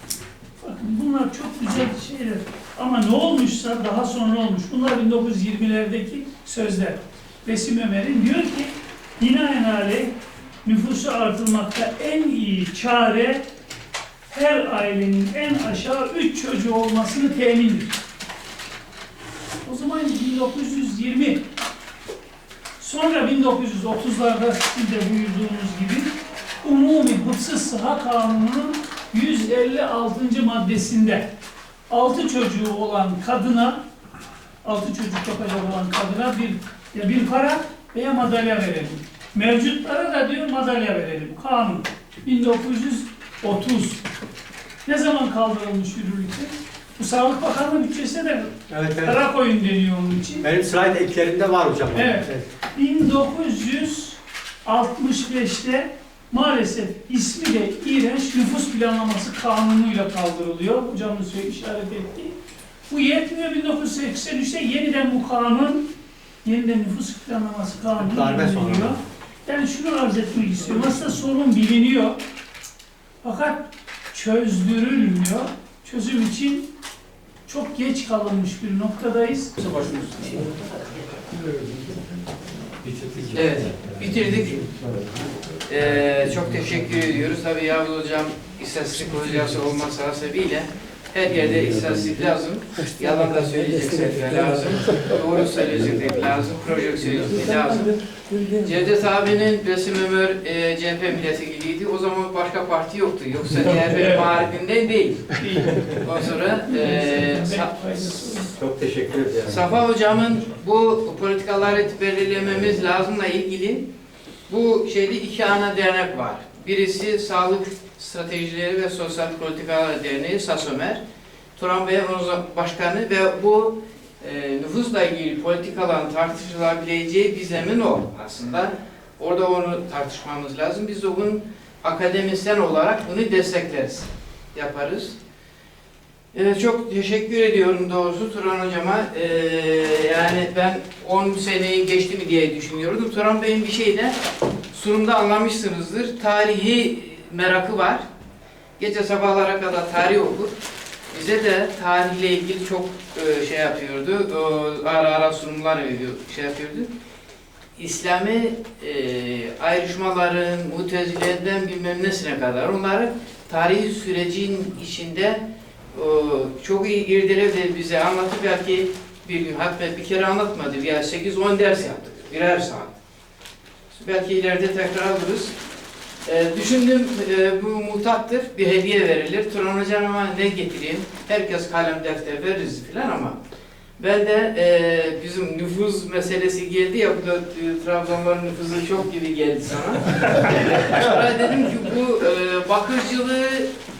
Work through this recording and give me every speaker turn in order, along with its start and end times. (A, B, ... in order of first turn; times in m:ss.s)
0:00.6-0:10.1 A
0:10.6-0:13.4 A
0:14.3-0:17.9 A
0:19.6-0:21.4 A
0:22.8-0:26.1 A
0:26.6-0:31.3 A
0:31.9-0:33.8 A
0:34.6-0:44.0 A
0:44.8-0:50.4 A
0:48.7-0:49.2 B
0:50.4-0:52.5 B
0:51.9-1:02.4 A
1:02.9-1:05.9 A
1:06.4-1:12.2 A
1:08.0-1:09.0 B
1:13.2-1:16.7 A
1:17.4-1:19.6 A
1:19.6-1:20.6 C
1:22.8-1:24.4 B
1:23.3-1:24.6 C
1:25.7-1:37.9 C
1:38.5-1:45.4 C
1:44.0-1:44.3 A
1:45.4-1:48.5 A
1:46.0-1:48.1 C
1:48.4-1:49.6 B
1:49.5-1:53.9 C
1:54.5-2:01.0 C
2:01.6-2:15.2 C
2:16.3-2:24.2 C
2:24.7-2:28.0 C
2:28.8-2:30.6 C
2:31.1-2:36.9 C
2:37.8-2:45.4 C
2:45.9-2:53.0 C
2:53.9-2:55.5 C
2:56.2-3:03.4 C
3:04.0-3:13.7 C